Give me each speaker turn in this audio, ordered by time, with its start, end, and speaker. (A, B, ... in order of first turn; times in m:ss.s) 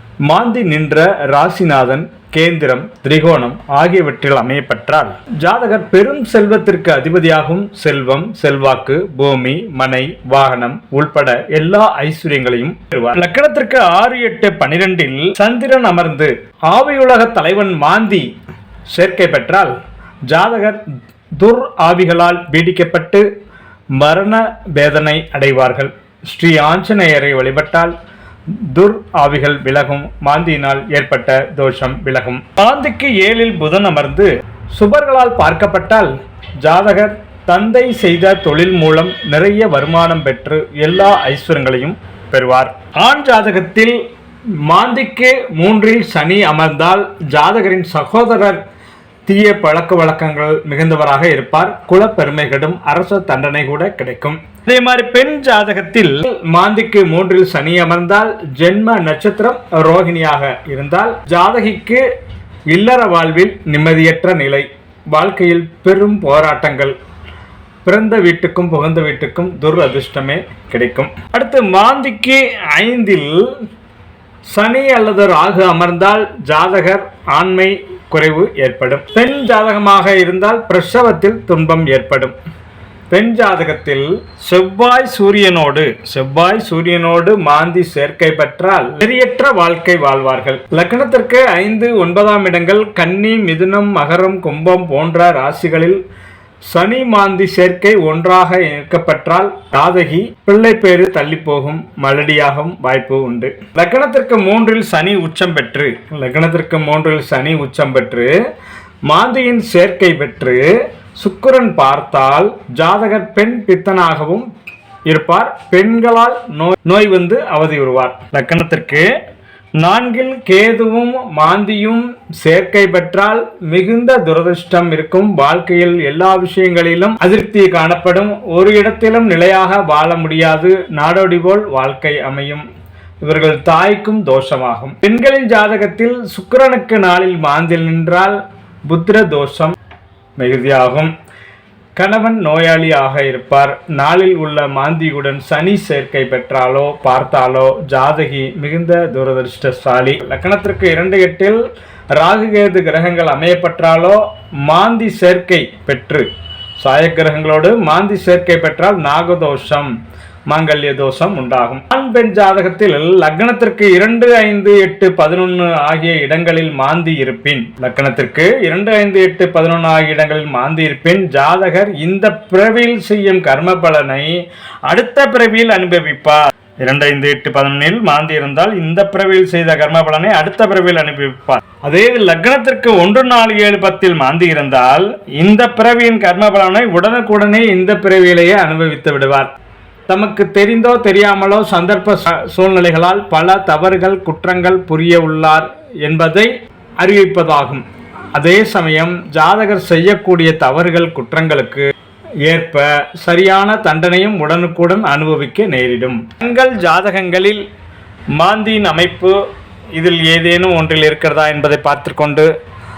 0:00.3-0:18.3 A
0:18.9-0:19.8 A
0:20.3-0:20.8 A
0:21.4-0:23.3 A
0:24.0-0:27.9 A
0:28.5-0:44.0 A
0:44.6-0:48.6 A
0:49.3-1:02.0 A
1:02.7-1:07.0 A
1:07.8-1:13.6 A
1:14.5-1:22.4 A
1:23.1-1:36.0 A
1:36.7-1:48.3 A
1:49.1-1:54.5 A
1:55.1-1:59.1 A
1:59.8-2:12.6 A
2:13.2-2:19.8 A
2:20.4-2:21.1 A
2:22.0-2:31.6 A
2:32.1-2:36.3 A
2:36.8-2:39.9 A
2:40.5-3:09.5 A
3:10.1-3:21.9 A
3:22.4-3:27.6 A
3:28.4-3:29.4 A
3:29.9-3:32.5 A